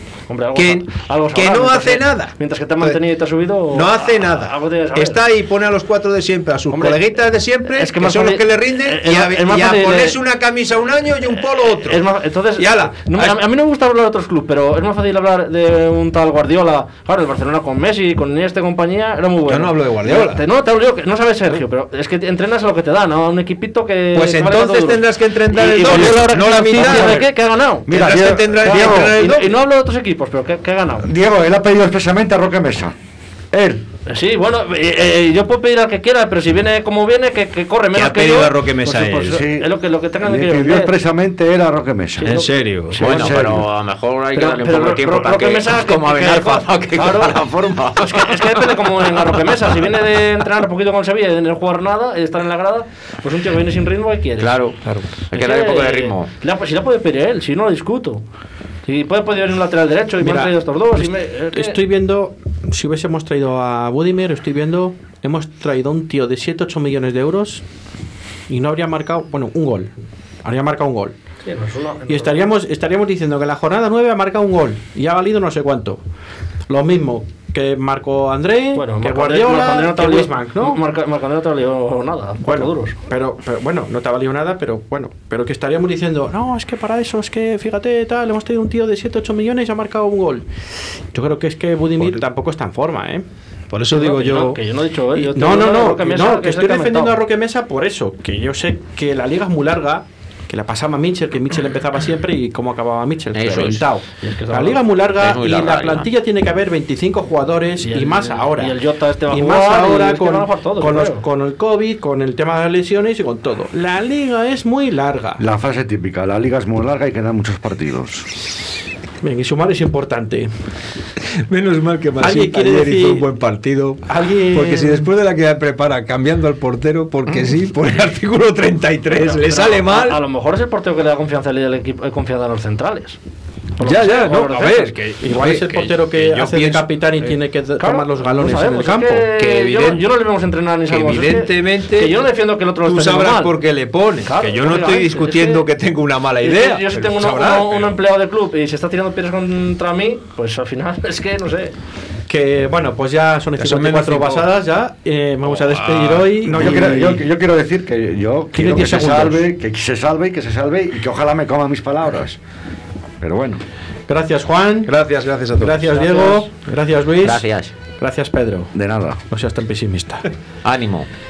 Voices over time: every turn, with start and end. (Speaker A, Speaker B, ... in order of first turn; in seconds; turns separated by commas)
Speaker A: 0.3-5.2, Speaker B: 0.5-3.0, Speaker B: 3.7-12.0, Speaker A: 6.7-7.0, Speaker A: 7.7-10.2, Speaker A: 11.4-31.1, Speaker B: 12.6-13.4, Speaker B: 19.4-20.4, Speaker B: 24.1-27.2, Speaker C: 26.7-27.2, Speaker C: 27.9-29.2, Speaker B: 27.9-29.6, Speaker C: 31.0-32.9, Speaker C: 33.5-33.8, Speaker A: 34.1-40.9, Speaker B: 37.9-39.4, Speaker C: 39.2-42.4, Speaker B: 42.2-43.0, Speaker A: 42.2-43.3, Speaker C: 42.9-43.7, Speaker D: 43.0-48.7, Speaker A: 44.3-54.6, Speaker D: 49.2-49.6, Speaker D: 54.4-54.8, Speaker E: 54.8-55.1, Speaker D: 55.3-56.3, Speaker A: 55.3-58.2, Speaker A: 58.9-61.8, Speaker E: 60.2-67.6, Speaker E: 68.5-69.9, Speaker E: 70.4-71.1, Speaker A: 71.4-72.4, Speaker E: 72.1-76.0, Speaker E: 76.7-80.8, Speaker A: 78.7-83.0, Speaker E: 82.4-90.5, Speaker E: 91.1-93.2, Speaker B: 93.7-94.5, Speaker A: 93.9-97.2, Speaker E: 95.1-108.8, Speaker D: 103.3-103.8, Speaker A: 104.2-104.8, Speaker D: 105.2-106.1, Speaker A: 107.8-111.2, Speaker E: 109.3-115.4, Speaker C: 115.4-118.3, Speaker E: 119.2-120.5, Speaker B: 121.5-130.2, Speaker E: 122.2-123.2, Speaker E: 124.1-125.1, Speaker A: 129.1-133.2, Speaker A: 133.8-134.9, Speaker B: 133.8-137.4, Speaker E: 135.2-139.3, Speaker A: 137.8-143.5, Speaker B: 139.3-140.1, Speaker B: 140.9-142.2, Speaker B: 142.8-148.0, Speaker A: 144.2-145.6, Speaker A: 146.4-151.7, Speaker E: 152.3-157.2, Speaker B: 153.6-154.5, Speaker B: 155.4-156.7, Speaker C: 156.4-162.4, Speaker E: 158.5-159.4, Speaker C: 163.2-163.6, Speaker E: 164.1-164.9, Speaker B: 164.8-166.2, Speaker E: 165.6-168.7, Speaker A: 166.0-166.4, Speaker D: 167.2-167.7, Speaker C: 168.7-169.2, Speaker E: 169.3-170.2, Speaker D: 170.6-171.1